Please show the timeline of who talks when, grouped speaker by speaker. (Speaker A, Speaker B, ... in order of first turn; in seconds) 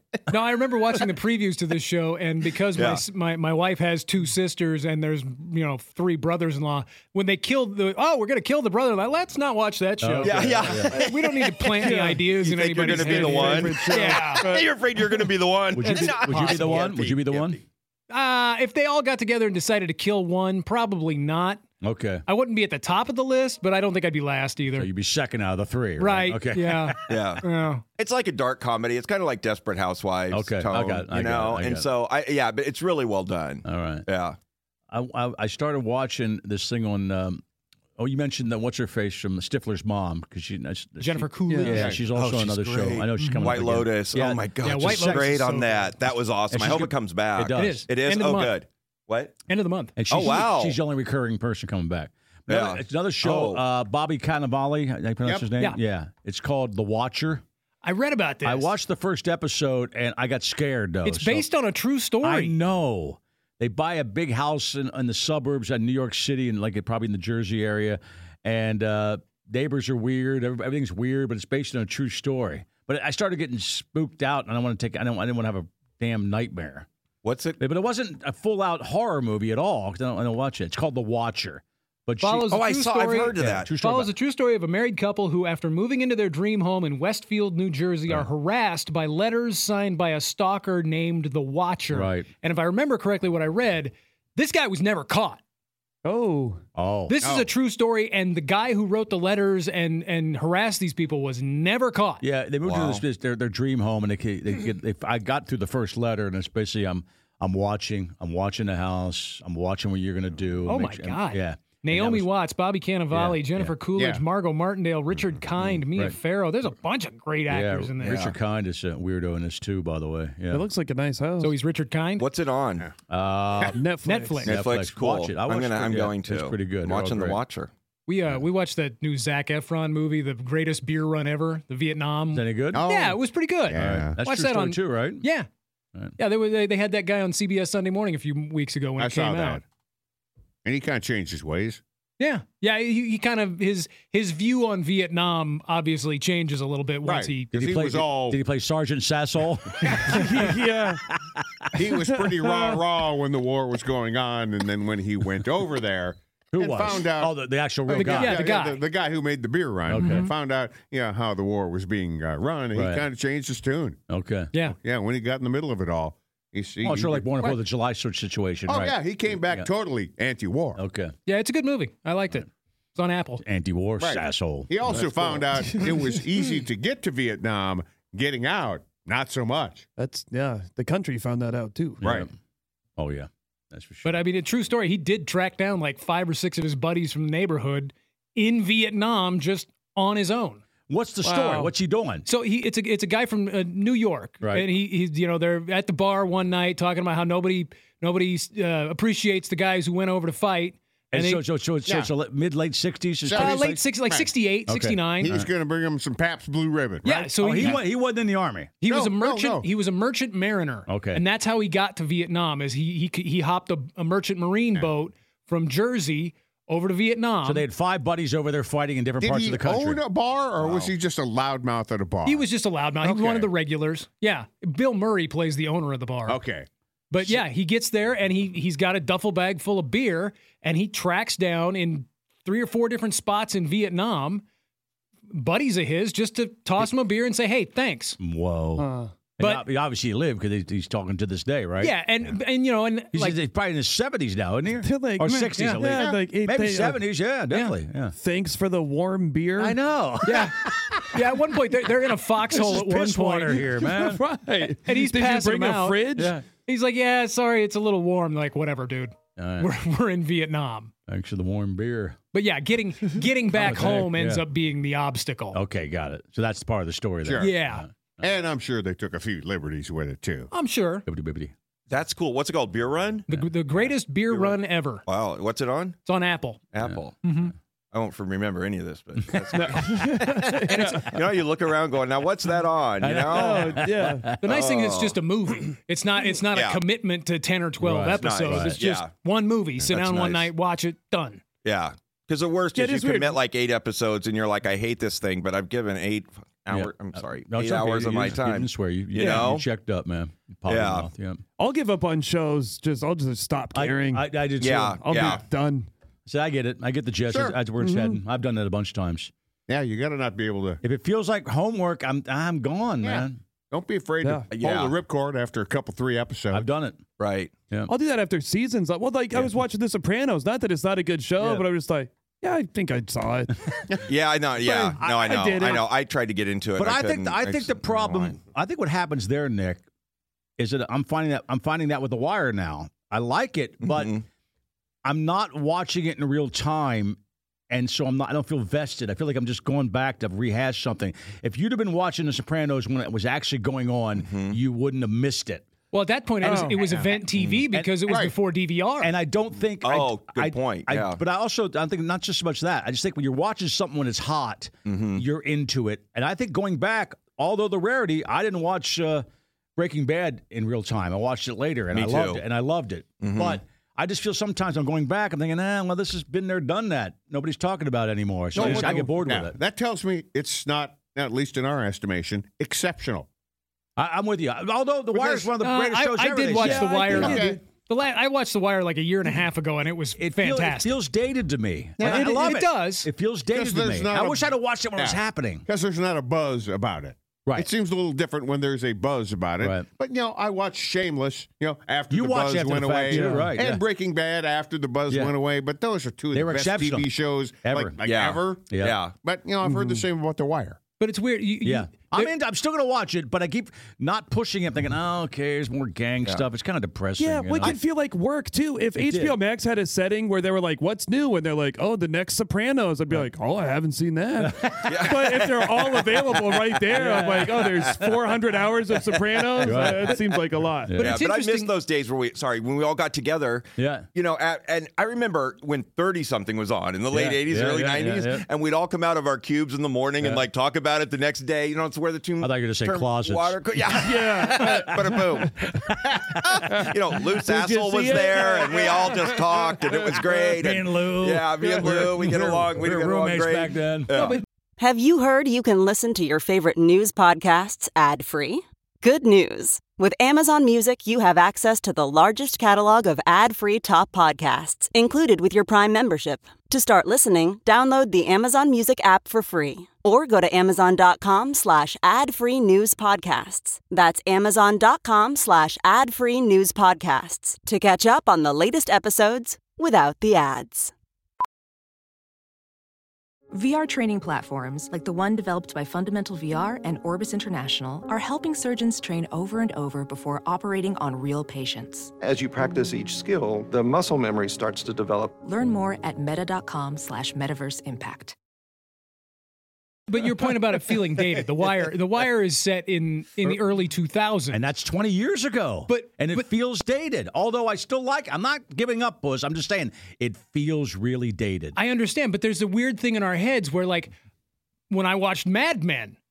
Speaker A: 0.3-14.5, 15.8-16.8, 18.1-21.6, 22.3-24.9, 26.0-27.8, 41.0-41.9, 44.6-45.9, 47.5-48.5, 49.5-49.9, 57.8-58.7, 61.0-62.5, 82.2-95.4, 97.1-102.2, 110.7-118.2, 121.4-122.2, 124.0-124.5, 128.1-135.5, 136.2-139.6, 142.2-147.5, 157.9-158.8, 160.0-160.3, 171.3-173.4, 184.0-190.6, 192.2-201.4, 203.3-205.3, 207.0-207.8, 208.8-217.6, 222.2-226.4, 227.1-234.4, 235.3-238.2, 241.8-243.4, 245.6-245.8, 247.5-247.8, 250.2-253.7, 254.8-260.9, 262.3-265.6, 267.4-267.8, 270.5-271.0, 273.3-275.0, 276.1-276.6, 277.2-277.5, 284.4-291.4, 345.9-349.1, 375.6-380.9, 382.0-383.1, 401.0-402.3, 420.9-421.7, 444.1-444.4, 490.1-494.6, 495.9-496.5, 501.8-504.1, 504.9-506.1
Speaker B: 2.8-3.0, 10.2-17.6, 27.1-27.4, 28.0-34.4, 42.1-49.3, 50.1-50.8, 52.5-53.6, 77.2-77.6, 82.5-83.7, 102.6-103.0, 118.1-118.3, 122.2-122.9, 124.5-127.7, 220.6-220.9, 271.9-273.3, 274.3-276.0, 276.7-277.2, 277.9-283.8, 284.4-285.2, 286.5-286.8, 288.2-289.1, 289.9-290.5, 291.6-299.6, 300.7-301.1, 304.6-305.4, 314.5-314.9, 317.2-317.5, 324.1-328.4, 333.8-334.2, 344.2-344.6, 349.8-351.2, 354.8-355.2, 361.9-362.4, 363.2-363.6, 398.0-399.1, 414.8-415.6, 419.5-420.2, 421.0-435.6, 436.4-444.4
Speaker C: 10.0-10.9, 15.7-17.6, 21.8-22.2, 24.7-27.2, 30.3-31.9, 33.6-34.0, 34.9-37.4, 38.0-45.4, 46.5-47.9, 50.0-57.4, 58.4-61.5, 62.2-76.9, 77.6-82.6, 83.3-84.1, 91.9-92.3, 96.7-97.3, 102.2-112.3, 113.1-113.7, 117.5-120.7, 123.1-123.8, 124.4-127.4, 132.3-132.8, 133.7-135.2, 147.5-150.5, 151.3-151.8, 156.5-158.5, 159.8-160.3, 162.7-163.0, 164.1-164.5, 166.8-168.9, 170.8-171.2, 173.4-175.0, 182.0-182.3, 183.0-184.2, 190.9-192.2, 194.4-194.7, 201.1-203.8, 204.7-205.5, 207.4-208.7, 210.9-211.2, 217.4-220.0, 238.2-241.9, 243.1-248.1, 249.6-251.2, 252.5-254.2, 256.1-256.4, 259.4-259.7, 261.1-262.2, 263.5-264.4, 265.5-267.9, 271.1-271.5, 283.0-284.4, 287.8-288.8, 296.7-301.4, 303.7-305.4, 306.2-309.3, 310.8-313.4, 316.5-317.0, 321.4-321.6, 326.8-329.8, 330.6-334.2, 335.0-337.2, 337.7-345.6, 349.0-359.2, 359.8-369.6, 374.0-377.5, 380.2-385.6, 389.6-389.9, 392.1-393.8, 395.1-395.3, 396.3-397.1, 397.6-398.0, 398.7-399.0, 401.6-407.8, 409.0-409.4, 414.4-415.5, 416.9-418.1, 419.6-420.2, 420.8-421.2, 423.8-424.1, 427.1-428.4, 432.4-433.9, 434.4-436.8, 440.5-444.4, 494.5-501.8
Speaker D: 11.8-14.7, 41.5-41.8, 96.0-96.6, 120.5-121.5, 123.7-124.5, 150.1-151.0, 152.4-152.8, 174.9-176.2, 180.0-182.0, 191.2-191.7, 238.8-239.1, 244.8-247.0, 248.2-249.8, 253.7-256.4, 279.5-281.1, 283.3-284.3, 292.7-293.4, 301.6-304.3, 305.0-305.9, 307.8-308.2, 314.2-314.5, 317.9-323.5, 324.6-325.9, 346.4-346.9, 376.7-377.6, 393.1-393.5, 399.6-400.0, 407.2-420.9, 433.9-435.5, 436.7-440.2
Speaker E: 41.7-42.0, 97.2-97.5, 113.9-114.2, 132.7-134.2, 139.0-139.6, 140.6-141.8, 147.0-148.4, 151.7-157.3, 157.9-164.0, 164.7-167.4, 168.7-170.8, 174.0-179.8, 182.0-182.3, 203.2-204.3, 205.2-207.8, 208.8-209.7, 219.2-222.4, 223.0-223.5, 226.3-226.7, 267.2-267.5, 268.2-270.5, 307.3-307.6, 309.7-310.8, 313.0-316.6, 348.0-348.3, 368.5-373.3, 375.1-375.5, 376.8-377.6, 382.0-382.3, 383.5-400.8
Speaker F: 444.8-470.9
Speaker G: 473.5-482.1, 485.4-488.3
Speaker H: 482.2-485.4